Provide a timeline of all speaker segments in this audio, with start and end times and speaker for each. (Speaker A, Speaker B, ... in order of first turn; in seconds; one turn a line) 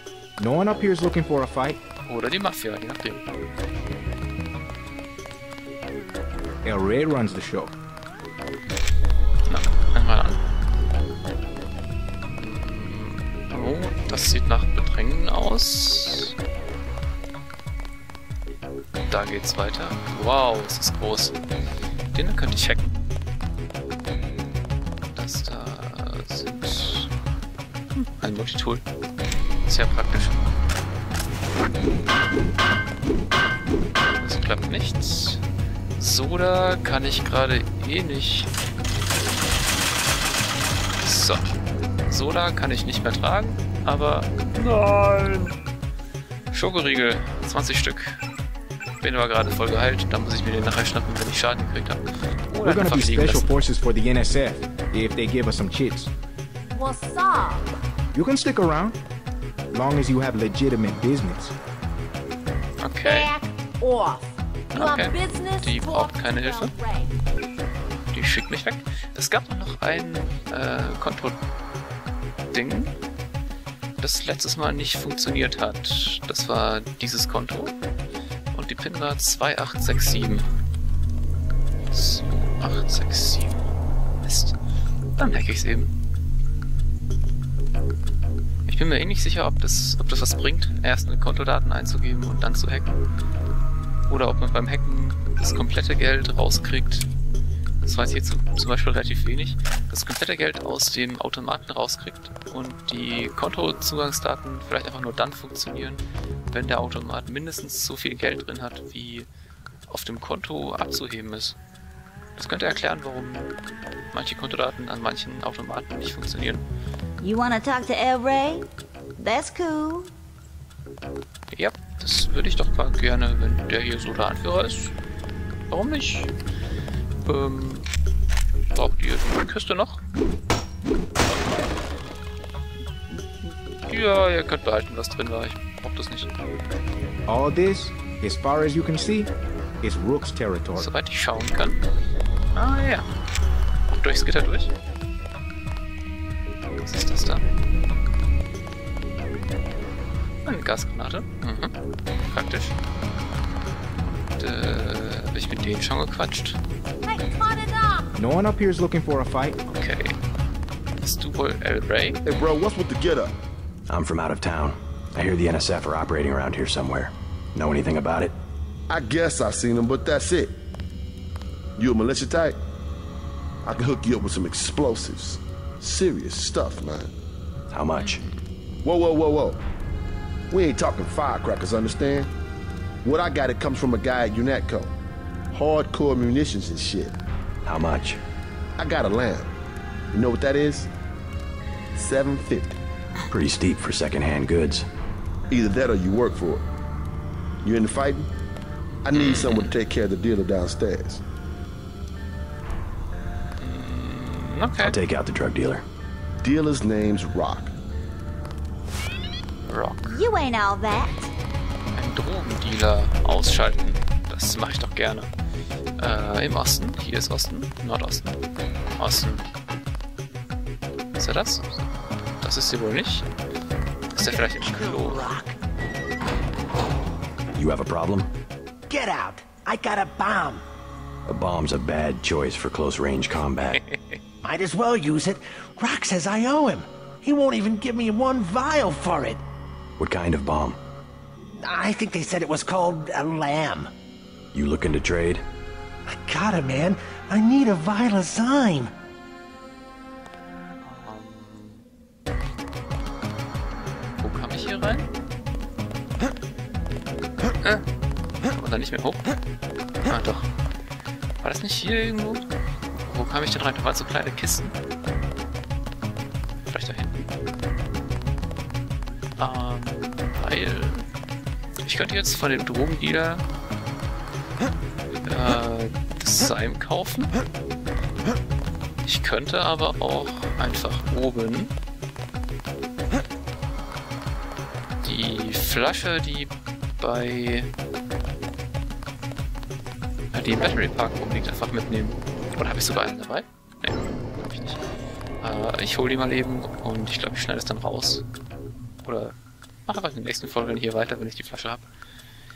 Speaker A: 0.4-1.8
Speaker B: 2.1-3.2
Speaker A: 6.6-7.7
Speaker B: 9.5-10.4
Speaker B: 12.3-16.3
Speaker B: 19.1-21.4
Speaker B: 22.1-22.9
Speaker B: 25.1-27.1
Speaker B: 28.0-28.8
Speaker B: 29.7-30.4
Speaker B: 34.1-35.4
Speaker B: 36.0-38.5
Speaker B: 41.0-41.5
Speaker B: 42.1-45.5
Speaker B: 46.5-48.2
Speaker B: 49.0-53.6
Speaker A: 52.6-56.1
Speaker C: 56.7-57.7
Speaker A: 58.1-59.0
Speaker A: 59.7-61.5
Speaker B: 62.8-63.3
Speaker C: 63.0-67.1
Speaker B: 64.7-66.7
Speaker B: 68.1-71.4
Speaker B: 72.5-73.0
Speaker B: 74.0-77.7
Speaker B: 78.5-80.5
Speaker B: 81.9-83.6
Speaker B: 84.2-84.6
Speaker B: 85.2-85.9
Speaker B: 88.7-92.9
Speaker B: 94.1-97.1
Speaker B: 97.8-109.3
Speaker B: 109.9-111.6
Speaker B: 112.4-113.5
Speaker B: 114.1-116.6
Speaker D: 117.2-118.7
Speaker D: 119.2-120.1
Speaker B: 121.5-125.0
Speaker B: 125.7-126.3
Speaker B: 127.2-127.9
Speaker B: 128.7-130.0
Speaker B: 133.1-136.3
Speaker A: 137.3-139.3
Speaker A: 139.8-140.9
Speaker B: 140.8-141.8
Speaker B: 142.6-143.1
Speaker B: 143.9-144.7
Speaker B: 146.8-147.4
Speaker B: 150.5-151.7
Speaker B: 152.3-152.8
Speaker B: 154.0-156.6
Speaker C: 157.1-158.1
Speaker A: 158.2-159.6
Speaker B: 159.7-160.2
Speaker B: 161.0-162.2
Speaker E: 162.2-163.3
Speaker F: 163.9-168.3
Speaker E: 168.9-170.5
Speaker E: 171.8-172.6
Speaker E: 173.6-177.1
Speaker F: 177.7-178.2
Speaker B: 178.0-178.4
Speaker E: 178.8-179.6
Speaker E: 180.5-182.3
Speaker E: 183.0-184.9
Speaker E: 185.5-187.1
Speaker F: 187.7-188.2
Speaker E: 188.8-189.5
Speaker E: 190.1-190.9
Speaker E: 192.0-192.8
Speaker F: 193.3-194.9
Speaker E: 195.5-196.6
Speaker E: 197.6-198.3
Speaker E: 199.1-201.2
Speaker B: 199.1-199.8
Speaker B: 203.6-205.0
Speaker F: 204.8-205.8
Speaker E: 206.4-207.7
Speaker B: 209.7-210.2
Speaker D: 210.1-211.3
Speaker B: 211.9-215.3
Speaker B: 216.0-218.4
Speaker B: 219.0-219.5
Speaker B: 221.2-221.8
Speaker B: 222.4-223.3
Speaker B: 224.2-225.3
Speaker G: 224.2-225.6
Speaker F: 227.6-228.3
Speaker G: 228.9-230.6
Speaker F: 231.3-233.8
Speaker B: 233.7-234.2
Speaker G: 234.4-239.4
Speaker F: 240.0-240.8
Speaker G: 241.6-243.9
Speaker F: 244.5-245.4
Speaker G: 246.1-248.9
Speaker B: 250.8-251.8
Speaker B: 254.2-255.1
Speaker B: 258.5-259.3
Speaker B: 260.1-260.5
Speaker B: 261.4-262.5
Speaker B: 263.0-264.8
Speaker B: 266.7-267.2
Speaker B: 269.4-271.0
Speaker B: 271.8-273.4
Speaker B: 275.3-277.3
Speaker B: 279.1-281.7
Speaker B: 285.0-287.7
Speaker B: 290.3-294.8
Speaker B: 295.4-298.2
Speaker B: 299.0-299.4
Speaker B: 299.9-301.9